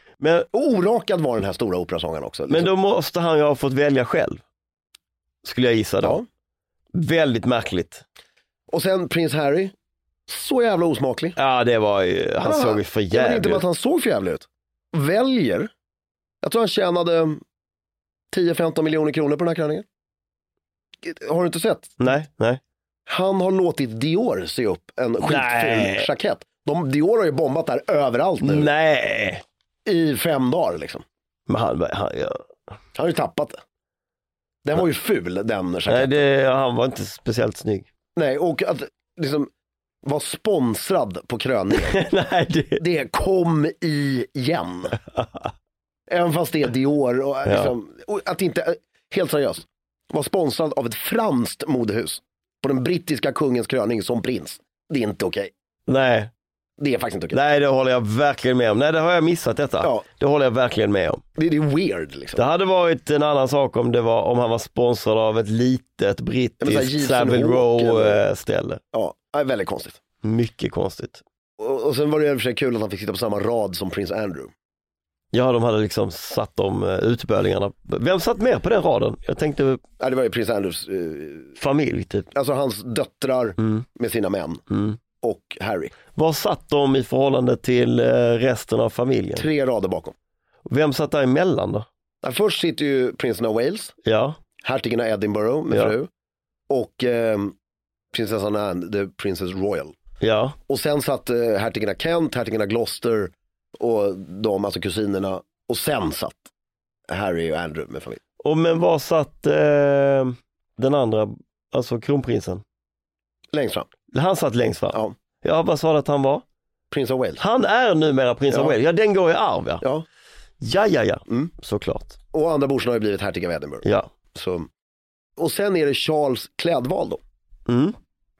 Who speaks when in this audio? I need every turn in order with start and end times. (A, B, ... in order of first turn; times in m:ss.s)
0:00.2-0:00.5 A
0:00.5-0:02.7 B
0:02.5-0:04.4 A
0:05.4-0:06.2 A
0:06.9-0:08.0 A
0:08.7-0:09.7 B
0:10.3-0:11.4 B
0:11.4-0:13.6 A
0:12.4-0:15.7 B
0:16.4-0:17.4 B
0:18.3-0:19.8 B
0:21.0-0:22.0 B
0:22.0-0:22.6 A
0:23.1-0:28.7 B
0:25.2-0:26.1 A
0:28.4-0:29.4 A
0:29.8-0:31.0 B
0:31.5-0:32.4 A
0:32.9-0:33.6 B
0:34.6-0:36.2 B
0:35.9-0:37.9 A
0:38.2-0:39.5 B
0:40.0-0:42.0 B
0:41.8-0:42.8 A
0:42.8-0:45.0 B
0:45.1-0:45.5 A
0:46.1-0:55.5 B
0:47.5-0:47.7 A
0:55.9-0:56.3 A
0:56.8-0:57.4 B
0:57.3-1:01.2 A
1:01.4-1:02.4 B
1:02.4-1:08.8 A
1:06.6-1:08.2 B
1:08.9-1:10.0 B
1:10.2-1:11.2 A
1:11.6-1:14.5 B
1:15.3-1:19.8 A
1:20.0-1:21.5 B
1:21.6-1:22.3 A
1:22.3-1:24.6 B
1:24.7-1:25.0 A
1:25.2-1:25.9 B
1:26.1-1:29.4 A
1:29.4-1:30.1 B
1:30.7-1:31.8 A
1:32.2-1:33.9 B
1:34.0-1:34.4 A
1:34.6-1:36.1 B
1:36.7-1:37.5 B
1:38.1-1:39.9 B
1:40.2-1:40.6 A
1:40.7-1:46.5 B
1:47.1-1:48.2 B
1:48.4-1:52.6 A
1:53.5-1:53.9 B
1:54.1-1:56.4 A
1:56.9-1:57.4 B
1:57.4-1:59.8 A
1:58.5-1:58.8 B
2:00.6-2:02.2 A
2:02.3-2:04.7 B
2:05.4-2:07.2 B
2:07.7-2:07.9 A